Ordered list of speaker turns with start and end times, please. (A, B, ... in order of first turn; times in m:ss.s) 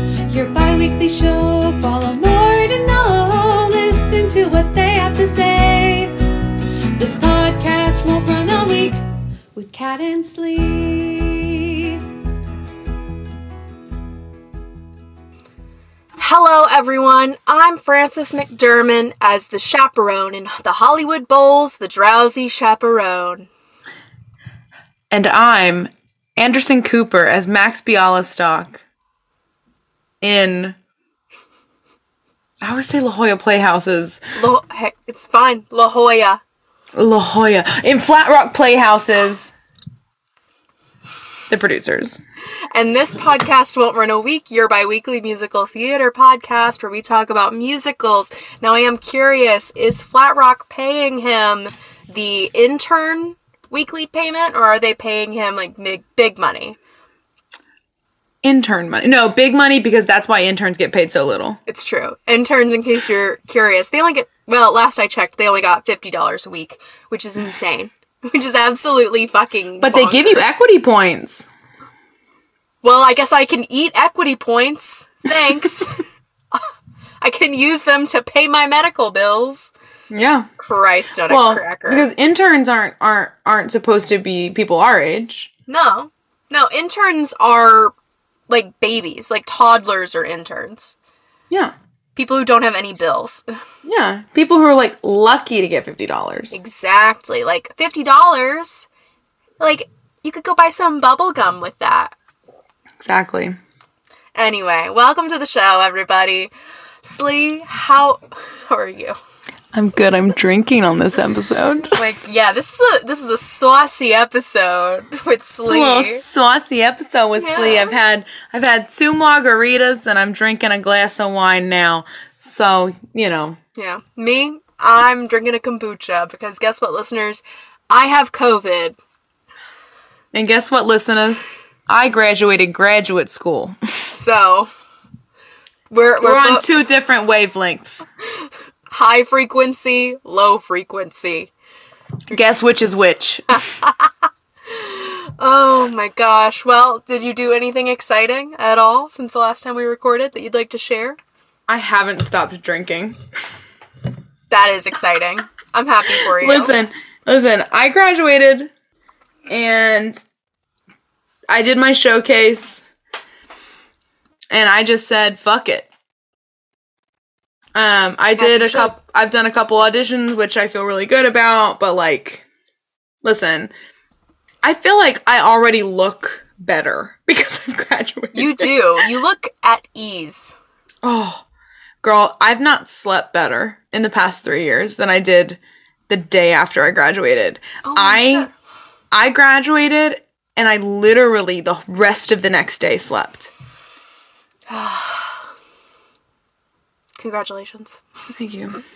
0:00.3-0:06.2 A
0:07.0-0:12.0 A
0:16.2-0:23.5 B
0:25.1-0:28.8 C
0:30.2-0:30.8 C
0:32.6-0:34.2 C
0:34.4-0:36.4 B
0:37.0-0:39.5 C
0:41.5-0:42.2 C
0:42.7-0:56.8 B
0:58.4-1:01.6 C
1:01.7-1:10.6 B
1:09.8-1:11.5 C
1:12.8-1:16.0 B
1:17.2-1:19.7 B
1:20.1-1:20.5 C
1:20.6-1:22.1 B
1:21.3-1:25.5 C
1:25.7-1:28.0 B
1:28.5-1:31.0 B
1:32.2-1:33.4 B
1:33.8-1:36.6 C
1:36.5-1:38.9 B
1:39.6-1:42.1 B
1:43.0-1:43.6 C
1:44.4-1:46.5 B
1:47.0-1:49.2 B
1:49.7-1:52.0 C
1:52.0-1:56.2 B
1:55.7-2:03.6 C
1:57.4-1:58.0 B
2:03.8-2:09.0 B
2:10.3-2:13.8 C
2:14.1-2:14.7 B
2:15.9-2:16.7 B
2:16.2-2:18.1 C
2:18.9-2:21.5 B
2:22.3-2:23.7 C
2:23.5-2:31.2 B
2:31.7-2:33.2 C
2:34.5-2:36.8 B
2:36.1-2:38.7 C
2:39.5-2:40.2 C
2:41.5-2:42.9 C
2:44.5-2:45.9 C
2:47.8-2:52.4 C
2:48.4-2:48.9 B
2:53.2-2:53.7 C
2:54.6-2:59.0 C
2:58.3-3:00.6 B
3:01.0-3:01.4 C
3:02.0-3:08.5 C
3:07.8-3:08.5 B
3:09.1-3:13.5 C
3:14.7-3:15.4 B
3:17.2-3:18.0 B
3:18.4-3:18.8 C